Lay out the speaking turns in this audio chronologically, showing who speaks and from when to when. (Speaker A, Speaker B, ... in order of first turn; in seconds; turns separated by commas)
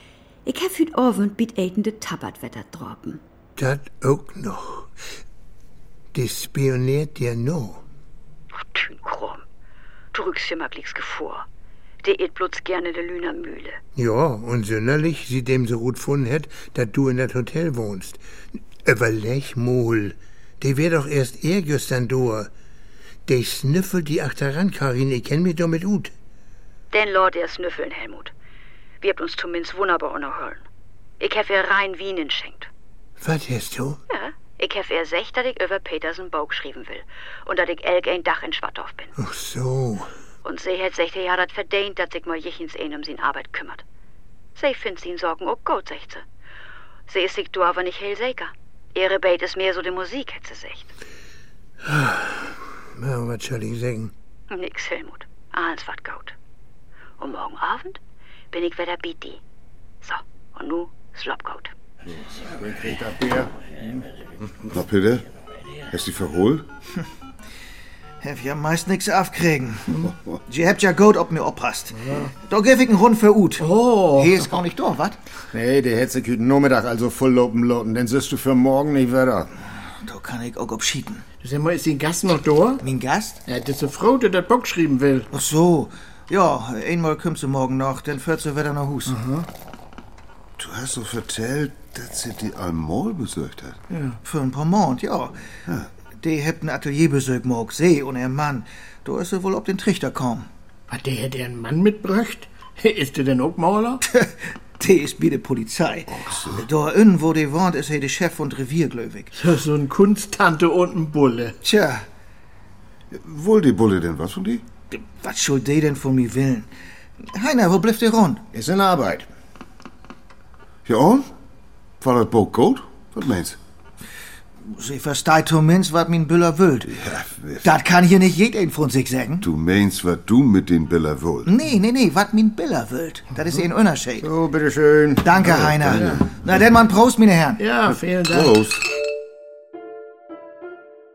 Speaker A: 0.5-3.2, Speaker B: 3.6-4.9, Speaker B: 6.1-7.8, Speaker A: 8.6-9.4, Speaker A: 10.1-11.4, Speaker A: 12.0-13.8, Speaker B: 13.9-18.2, Speaker B: 18.8-22.5, Speaker B: 23.2-26.1, Speaker A: 26.9-28.3, Speaker A: 29.0-30.6, Speaker A: 31.2-32.7, Speaker B: 33.2-34.0, Speaker A: 34.1-39.1, Speaker B: 39.2-40.1, Speaker A: 40.4-43.8, Speaker A: 44.5-46.2, Speaker A: 47.1-50.9, Speaker B: 51.8-54.1, Speaker A: 54.5-56.3, Speaker A: 57.2-58.0, Speaker A: 58.5-59.4, Speaker A: 60.0-61.7, Speaker C: 62.4-63.5, Speaker D: 64.7-65.2, Speaker D: 65.9-66.6, Speaker E: 68.2-75.2, Speaker F: 72.0-72.3, Speaker F: 73.6-74.5, Speaker C: 75.5-79.5, Speaker E: 80.0-81.2, Speaker F: 81.4-82.8, Speaker E: 82.8-83.4, Speaker F: 83.5-85.3, Speaker E: 85.3-89.2, Speaker F: 89.1-89.5, Speaker D: 90.6-93.8, Speaker F: 93.9-94.2, Speaker E: 94.2-95.3, Speaker E: 96.2-100.5, Speaker F: 100.9-104.0, Speaker E: 104.1-109.3, Speaker D: 106.2-106.6, Speaker F: 109.3-111.5, Speaker E: 111.6-112.0, Speaker D: 113.1-114.6, Speaker E: 114.9-116.7, Speaker E: 117.3-118.4, Speaker C: 118.5-119.3, Speaker D: 120.8-121.2, Speaker D: 122.0-123.6, Speaker E: 124.7-127.0, Speaker D: 126.9-127.7, Speaker E: 127.6-129.5, Speaker D: 129.4-131.5, Speaker E: 131.4-134.3, Speaker C: 134.2-135.8, Speaker E: 135.2-137.6, Speaker D: 135.4-136.4, Speaker F: 137.6-138.6, Speaker D: 137.9-138.8